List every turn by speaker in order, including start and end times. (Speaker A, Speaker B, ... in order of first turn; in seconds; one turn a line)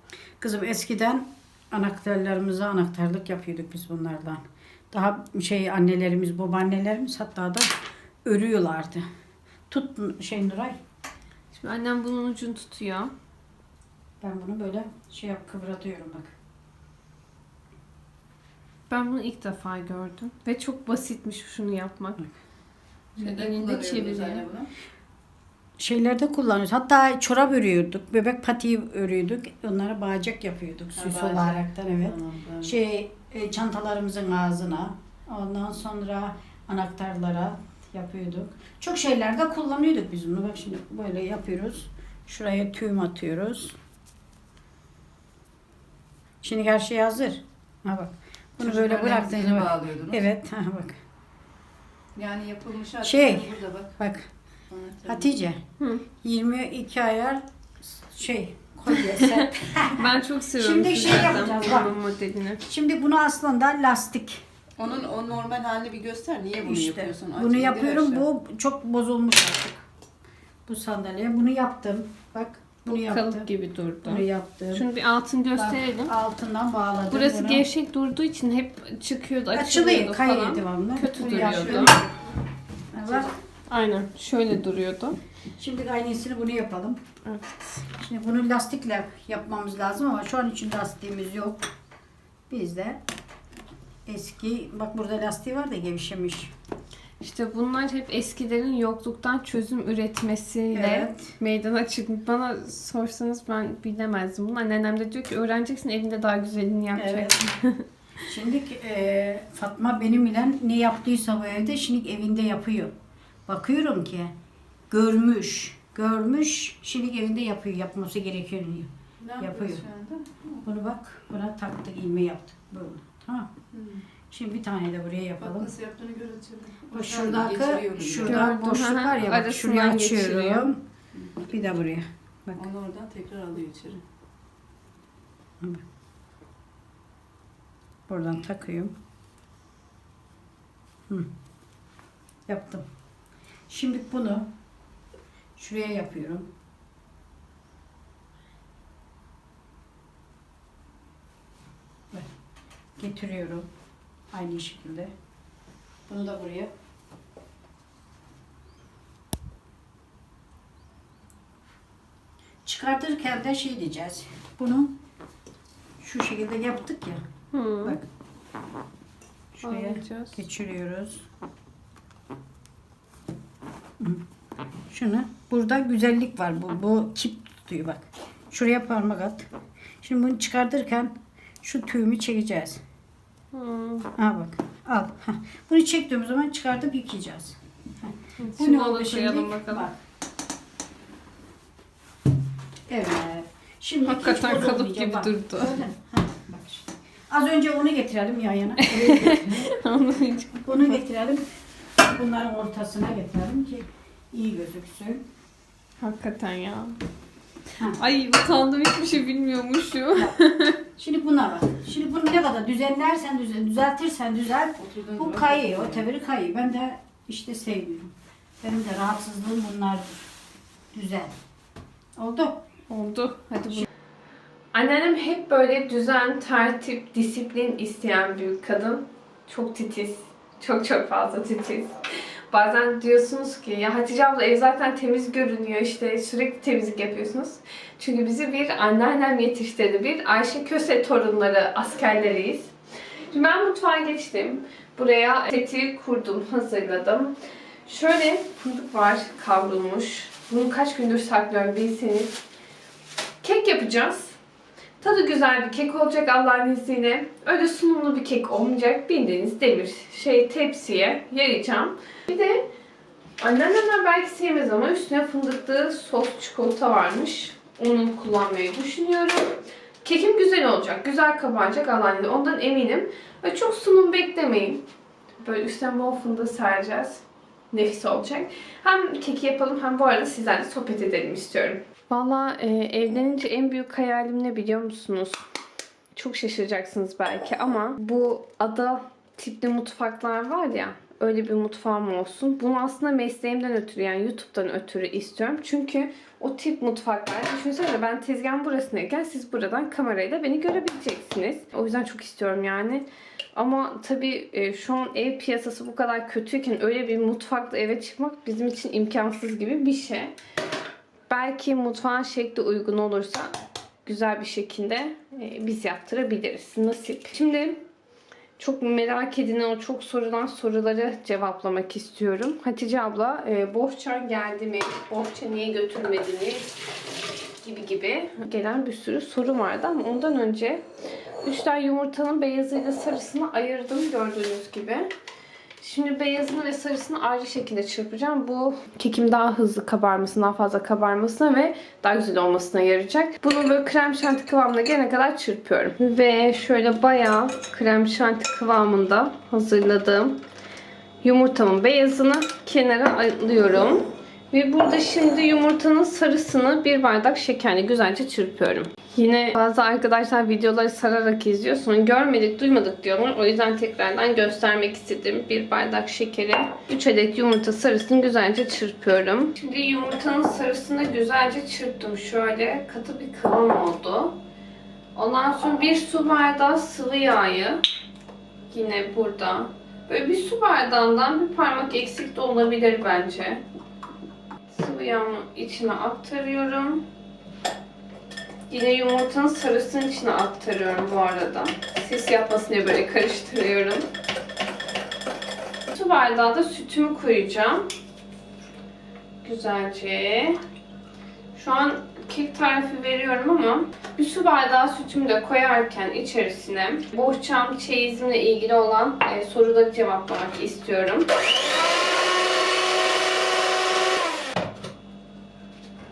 Speaker A: 0.4-9.1
Speaker A: 9.7-10.8
Speaker B: 11.5-13.1
Speaker A: 14.2-16.4
Speaker B: 18.9-22.2
Speaker C: 23.2-24.7
Speaker B: 23.2-24.4
Speaker A: 25.8-43.8
Speaker C: 31.0-32.7
Speaker A: 46.4-51.0
Speaker C: 48.6-50.3
Speaker C: 52.2-54.0
Speaker A: 53.0-54.3
Speaker C: 54.7-55.3
Speaker A: 55.1-55.6
Speaker A: 56.2-62.0
Speaker B: 59.9-62.6
Speaker A: 62.6-64.4
Speaker C: 64.8-68.2
Speaker A: 66.6-69.8
Speaker A: 70.7-73.5
Speaker B: 72.9-76.1
Speaker A: 74.0-74.9
Speaker A: 75.6-77.7
Speaker B: 77.1-82.0
Speaker A: 79.5-82.1
Speaker C: 81.5-81.9
Speaker A: 82.9-83.3
Speaker B: 83.1-85.2
Speaker A: 85.6-87.0
Speaker A: 88.0-91.6
Speaker A: 92.5-93.0
Speaker A: 94.1-96.5
Speaker B: 97.2-107.8
Speaker A: 100.7-101.3
Speaker A: 106.9-107.5
Speaker A: 108.2-112.9
Speaker A: 113.5-114.3
Speaker A: 114.9-119.8
Speaker C: 119.2-120.5
Speaker A: 120.6-123.5
Speaker C: 123.7-124.0
Speaker A: 124.3-125.7
Speaker C: 125.4-128.5
Speaker A: 126.9-130.8
Speaker B: 128.2-130.7
Speaker A: 131.5-132.7
Speaker C: 132.6-134.0
Speaker A: 138.1-138.9
Speaker A: 142.5-142.9
Speaker A: 143.7-144.5
Speaker A: 145.6-146.5
Speaker A: 153.0-153.7
Speaker A: 154.3-155.1
Speaker A: 156.1-156.7
Speaker A: 162.7-164.9
Speaker A: 166.0-167.2
Speaker B: 167.5-168.0
Speaker A: 169.5-171.2
Speaker B: 169.6-170.4
Speaker A: 174.9-179.5
Speaker A: 180.0-182.8
Speaker B: 183.5-184.1
Speaker A: 184.2-190.0
Speaker B: 188.4-189.9
Speaker A: 192.9-199.8
Speaker B: 194.1-195.8
Speaker B: 198.8-201.0
Speaker A: 200.7-201.5
Speaker A: 202.0-205.2
Speaker B: 206.0-207.0
Speaker B: 208.0-210.8
Speaker A: 211.0-220.2
Speaker C: 214.8-216.1
Speaker A: 220.9-221.3
Speaker A: 222.2-222.6
Speaker B: 222.9-223.9
Speaker B: 224.7-231.9
Speaker B: 232.5-242.7
Speaker B: 243.3-247.3
Speaker B: 247.9-252.4
Speaker B: 253.4-254.4
Speaker B: 255.0-262.7
Speaker B: 263.4-274.8
Speaker B: 275.4-285.4
Speaker B: 286.1-310.3
Speaker B: 311.3-313.5
Speaker B: 314.1-317.8
Speaker B: 318.6-326.7
Speaker B: 327.6-330.8
Speaker B: 331.4-335.1
Speaker B: 335.8-350.4
Speaker B: 351.2-374.4
Speaker B: 375.1-377.8
Speaker B: 378.7-383.6
Speaker B: 384.7-387.0
Speaker B: 388.7-394.1
Speaker B: 395.9-397.9
Speaker B: 399.4-400.6
Speaker B: 401.6-411.3